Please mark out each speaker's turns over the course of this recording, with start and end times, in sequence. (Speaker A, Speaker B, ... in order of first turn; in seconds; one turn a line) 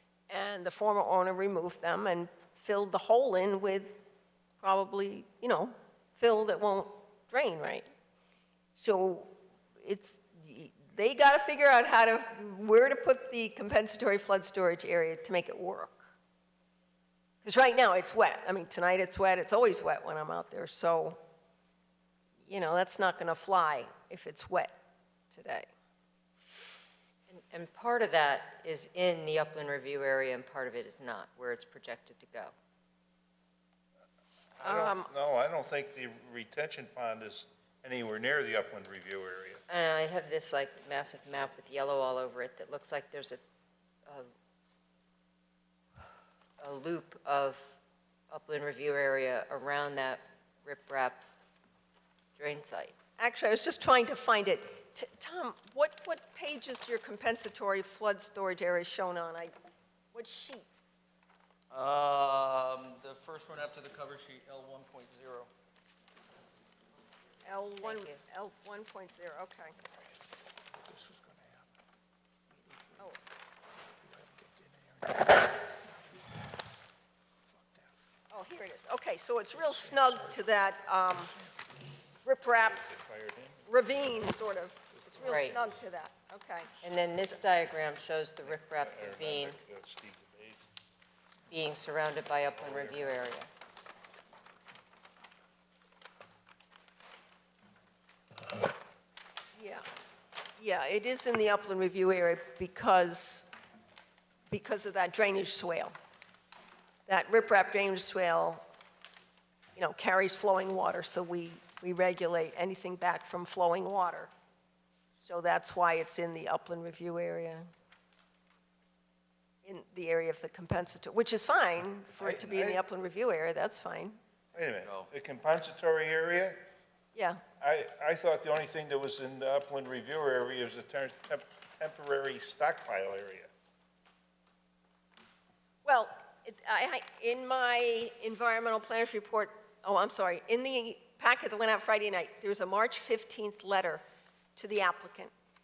Speaker A: 0.3-4.0
Speaker A: 4.6-7.9
Speaker A: 8.8-16.1
Speaker A: 17.4-21.2
Speaker A: 22.4-24.7
Speaker A: 25.3-25.7
Speaker B: 27.3-32.5
Speaker C: 34.6-39.6
Speaker A: 34.6-35.1
Speaker B: 39.7-43.4
Speaker B: 46.6-47.6
Speaker B: 48.3-51.2
Speaker B: 52.4-53.0
Speaker A: 53.2-59.5
Speaker A: 60.1-60.8
Speaker D: 61.7-65.5
Speaker A: 67.4-69.7
Speaker B: 67.8-68.2
Speaker A: 78.3-81.3
Speaker A: 82.2-82.8
Speaker C: 82.6-83.6
Speaker A: 83.7-86.8
Speaker B: 85.2-85.6
Speaker B: 86.8-89.6
Speaker C: 88.4-90.6
Speaker B: 91.5-93.5
Speaker C: 92.5-93.2
Speaker A: 99.5-99.8
Speaker A: 100.6-103.5
Speaker A: 104.5-105.9
Speaker A: 107.1-108.6
Speaker A: 109.8-114.3
Speaker A: 115.2-117.7
Speaker A: 119.6-124.2
Speaker C: 122.2-122.8
Speaker C: 124.5-126.6
Speaker D: 124.8-125.1
Speaker A: 127.1-127.4
Speaker C: 127.6-133.5
Speaker A: 135.8-144.0
Speaker A: 144.6-145.3